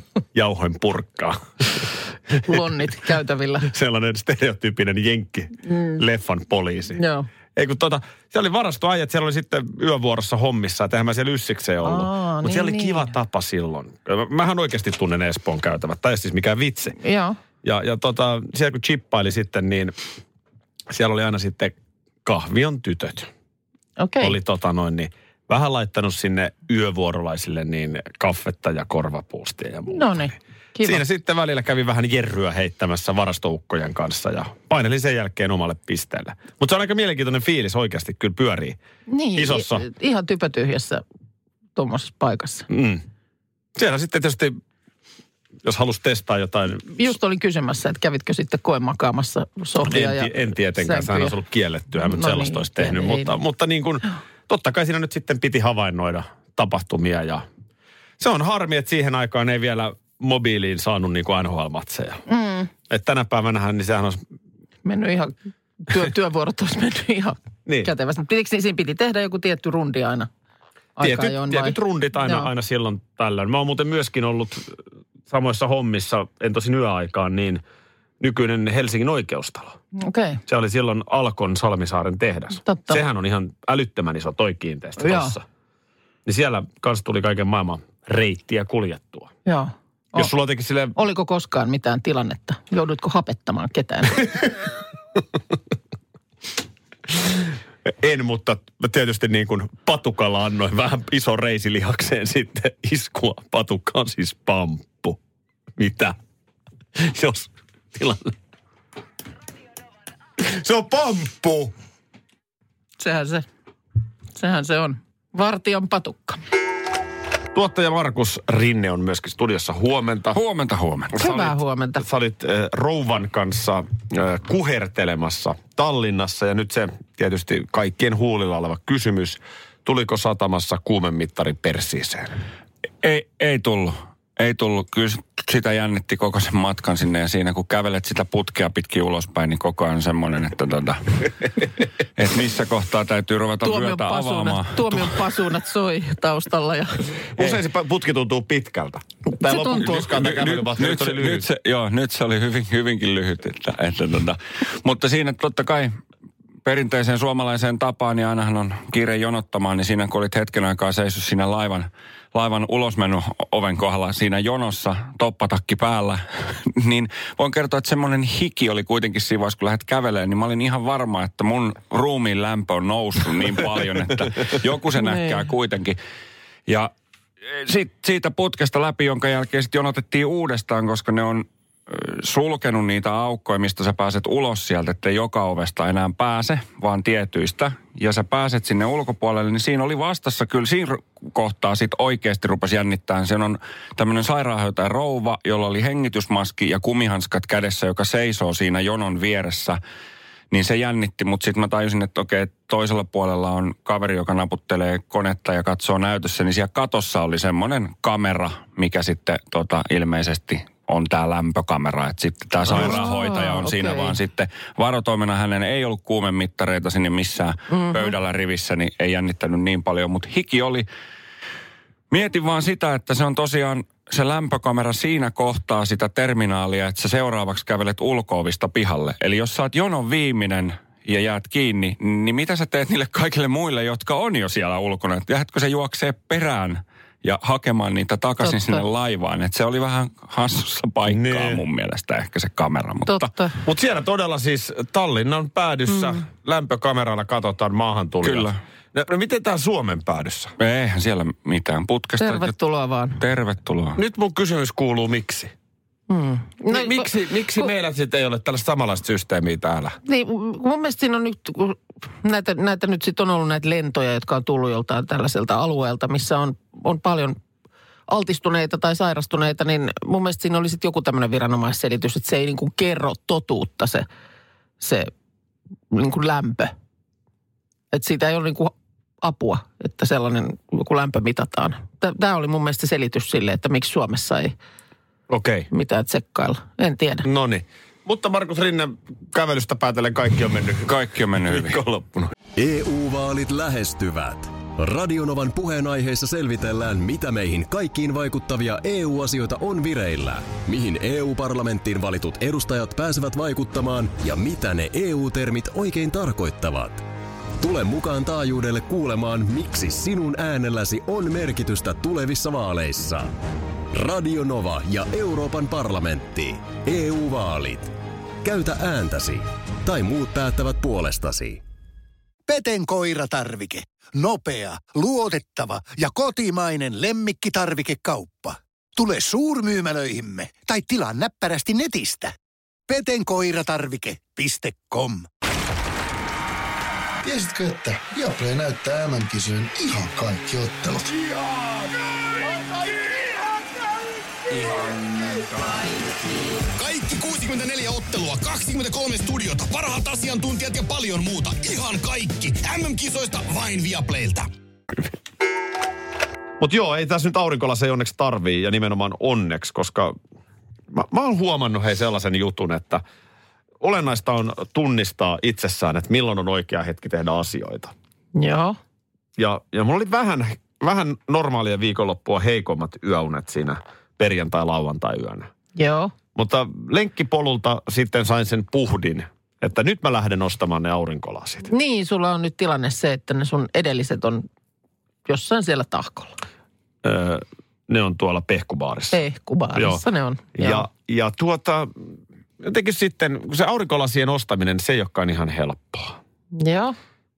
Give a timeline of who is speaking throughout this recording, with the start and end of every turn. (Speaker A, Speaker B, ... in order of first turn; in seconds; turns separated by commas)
Speaker A: 0.3-2.9, Speaker B: 2.4-3.7, Speaker A: 3.6-7.0, Speaker B: 6.9-7.3, Speaker A: 7.5-17.0, Speaker B: 11.8-13.1, Speaker B: 17.0-17.4, Speaker A: 17.6-19.9, Speaker A: 20.9-23.3, Speaker B: 24.0-24.4, Speaker A: 24.2-30.2, Speaker B: 29.9-31.0, Speaker A: 30.8-38.8, Speaker B: 39.1-41.0, Speaker A: 39.3-39.9, Speaker B: 41.8-42.7, Speaker A: 42.7-43.0, Speaker A: 43.8-44.6, Speaker A: 45.6-47.1, Speaker B: 46.9-51.3, Speaker A: 49.8-57.4, Speaker B: 52.0-53.3, Speaker A: 58.2-62.2, Speaker B: 62.3-62.7, Speaker A: 62.9-64.2, Speaker B: 64.8-70.3, Speaker A: 67.7-67.9, Speaker B: 71.0-72.5, Speaker A: 71.0-74.8, Speaker A: 75.3-77.6, Speaker A: 78.2-79.8, Speaker B: 80.0-80.4, Speaker A: 80.5-85.4, Speaker B: 82.6-83.0, Speaker B: 85.0-85.3, Speaker A: 86.2-89.3, Speaker B: 89.5-90.3, Speaker A: 90.1-91.0, Speaker B: 90.9-94.3, Speaker A: 97.8-105.2, Speaker A: 105.8-106.2, Speaker A: 107.0-108.3, Speaker A: 110.4-111.7, Speaker B: 113.0-113.5, Speaker B: 114.3-116.4, Speaker A: 117.5-120.4, Speaker C: 120.3-121.2, Speaker A: 121.1-132.3, Speaker B: 121.2-122.0, Speaker C: 133.0-141.5, Speaker C: 142.2-145.3, Speaker B: 143.6-147.2, Speaker A: 147.3-151.5, Speaker B: 149.4-149.9, Speaker C: 149.8-155.9, Speaker C: 156.6-176.0, Speaker B: 175.0-175.4, Speaker C: 176.7-176.9, Speaker C: 177.5-199.8, Speaker C: 200.5-220.9, Speaker A: 212.7-213.1, Speaker B: 212.7-214.2, Speaker B: 217.7-218.1, Speaker C: 222.1-243.3, Speaker B: 238.4-238.8, Speaker A: 241.0-241.6, Speaker B: 243.1-243.6, Speaker A: 243.6-250.5, Speaker B: 245.9-246.2, Speaker C: 248.2-248.6, Speaker C: 250.6-252.5, Speaker B: 252.2-253.2, Speaker C: 253.2-254.0, Speaker A: 253.9-255.5, Speaker B: 256.1-257.7, Speaker A: 256.7-260.0, Speaker B: 260.1-267.4, Speaker B: 268.1-274.0, Speaker B: 274.8-275.1, Speaker B: 275.9-276.7, Speaker B: 277.9-284.5, Speaker A: 285.3-285.7, Speaker B: 285.7-287.3, Speaker A: 287.2-292.3, Speaker C: 290.9-291.8, Speaker D: 292.6-307.0, Speaker D: 307.6-313.3, Speaker D: 313.9-321.6, Speaker E: 322.5-332.3, Speaker E: 332.9-335.3, Speaker F: 337.2-341.2, Speaker G: 346.7-354.5, Speaker A: 356.6-360.1, Speaker A: 360.9-363.0, Speaker A: 363.8-367.9, Speaker B: 368.3-368.8, Speaker A: 369.4-375.5, Speaker B: 375.8-376.1, Speaker A: 376.3-381.7, Speaker B: 381.6-384.4, Speaker B: 385.2-386.4, Speaker A: 387.0-389.2, Speaker B: 389.1-390.8, Speaker A: 389.7-390.0, Speaker A: 390.6-391.9, Speaker A: 392.6-396.2, Speaker B: 396.5-396.9